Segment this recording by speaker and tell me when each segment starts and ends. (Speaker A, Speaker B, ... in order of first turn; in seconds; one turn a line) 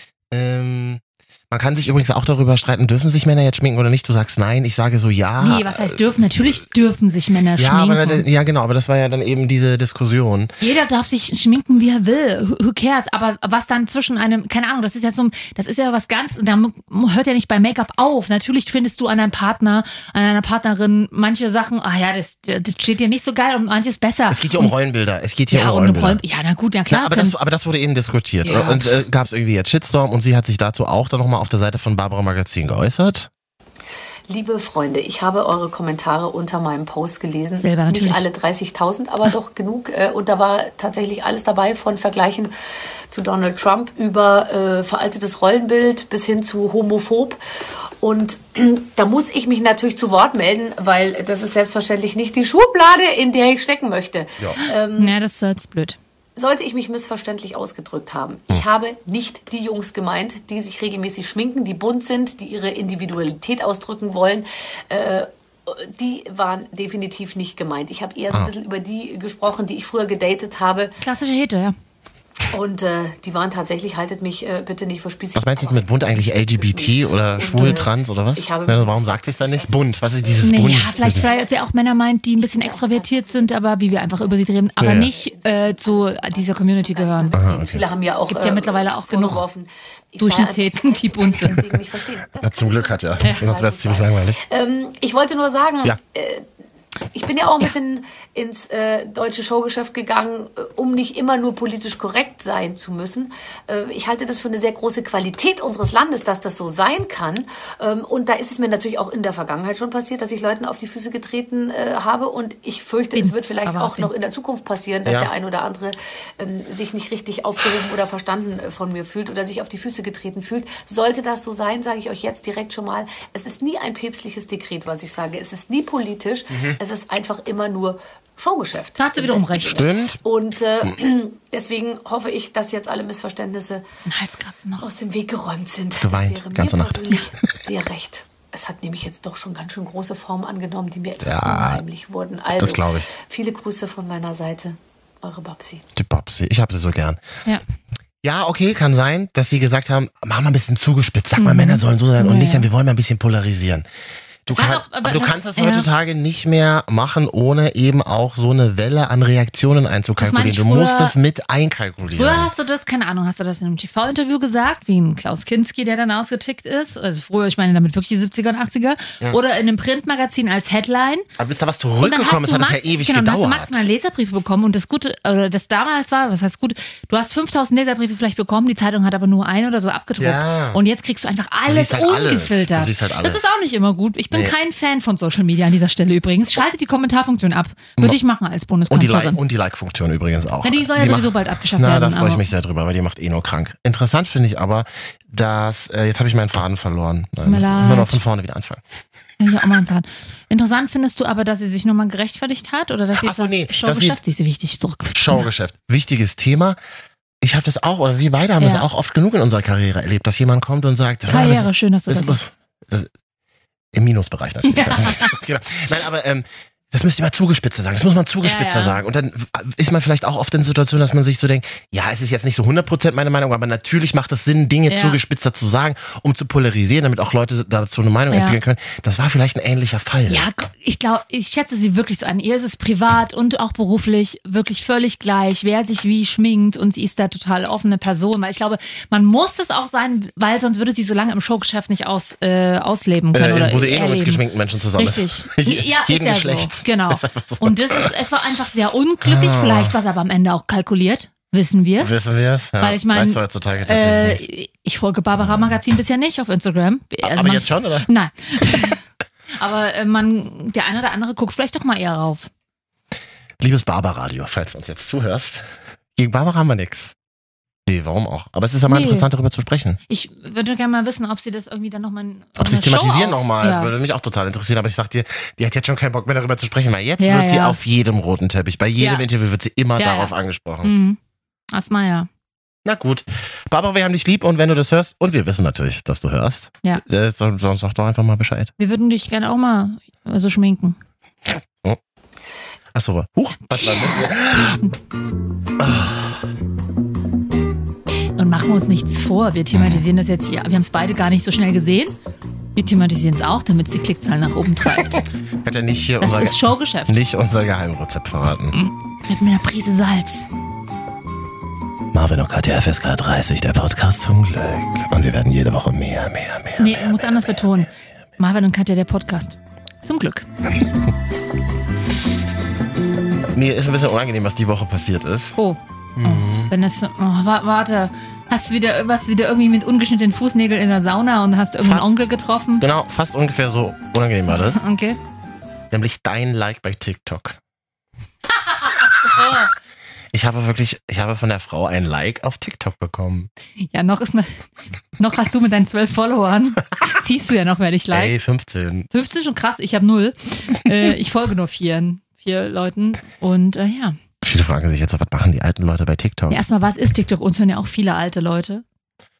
Speaker A: 0.3-6.0
Speaker B: 5.4-8.2
Speaker A: 7.6-10.5
Speaker B: 10.6-24.7
Speaker A: 24.3-26.2
Speaker B: 25.5-27.4
Speaker A: 26.9-33.3
Speaker B: 28.4-29.0
Speaker C: 34.3-42.5
Speaker B: 37.6-38.2
Speaker C: 43.1-47.4
Speaker C: 48.0-55.1
Speaker B: 55.0-56.0
Speaker C: 56.4-71.0
Speaker B: 71.0-71.8
Speaker C: 72.5-81.6
Speaker A: 75.3-81.3
Speaker B: 80.4-87.4
Speaker C: 82.4-96.5
Speaker A: 84.8-85.1
Speaker A: 87.3-87.8
Speaker B: 88.3-89.4
Speaker B: 90.2-91.6
Speaker A: 92.4-94.4
Speaker C: 97.1-133.9
Speaker B: 113.1-114.1
Speaker A: 126.5-126.8
Speaker B: 129.0-129.9
Speaker A: 129.7-130.2
Speaker B: 134.0-134.9
Speaker C: 134.8-145.8
Speaker A: 136.0-137.1
Speaker A: 141.2-141.8
Speaker A: 142.6-143.1
Speaker A: 145.9-147.2
Speaker A: 148.2-153.8
Speaker B: 151.4-152.7
Speaker A: 154.4-162.5
Speaker B: 154.5-155.9
Speaker B: 160.2-161.2
Speaker B: 162.2-171.2
Speaker A: 171.4-173.8
Speaker B: 172.0-189.4
Speaker A: 180.2-180.8
Speaker A: 181.7-183.5
Speaker A: 188.9-198.8
Speaker B: 190.6-192.4
Speaker B: 197.4-198.2
Speaker B: 199.4-205.5
Speaker A: 203.2-204.2
Speaker A: 205.1-206.8
Speaker A: 207.4-213.1
Speaker B: 208.6-208.8
Speaker B: 211.3-212.4
Speaker A: 213.9-230.5
Speaker B: 214.7-215.3
Speaker B: 218.4-219.0
Speaker B: 224.9-225.2
Speaker B: 228.3-228.6
Speaker B: 230.3-244.4
Speaker A: 243.3-248.1
Speaker B: 244.9-252.2
Speaker A: 249.2-249.9
Speaker A: 252.0-254.4
Speaker B: 252.8-259.0
Speaker A: 255.4-255.8
Speaker A: 257.2-258.9
Speaker B: 259.6-262.5
Speaker A: 263.6-265.6
Speaker A: 266.1-267.1
Speaker A: 267.9-270.0
Speaker B: 268.9-269.3
Speaker B: 270.1-273.9
Speaker A: 272.6-280.9
Speaker B: 277.2-277.8
Speaker B: 279.0-279.3
Speaker B: 280.0-281.2
Speaker B: 281.7-282.3
Speaker A: 282.8-288.7
Speaker B: 288.8-291.0
Speaker A: 291.5-292.0
Speaker A: 292.9-294.8
Speaker B: 293.7-294.3
Speaker A: 295.8-296.4
Speaker B: 298.4-302.1
Speaker A: 299.7-300.0
Speaker B: 302.8-305.2
Speaker A: 305.6-308.8
Speaker B: 306.2-307.2
Speaker B: 308.7-310.5
Speaker A: 312.1-317.9
Speaker B: 316.8-320.4
Speaker A: 323.5-325.6
Speaker B: 325.6-332.8
Speaker A: 326.1-326.7
Speaker A: 331.8-332.1
Speaker A: 332.8-334.8
Speaker B: 334.5-335.2
Speaker A: 335.9-337.6
Speaker B: 339.1-339.7
Speaker A: 340.3-343.5
Speaker B: 343.9-344.6
Speaker B: 345.2-348.3
Speaker A: 348.1-349.1
Speaker B: 349.1-354.2
Speaker A: 354.4-356.6
Speaker B: 356.5-358.8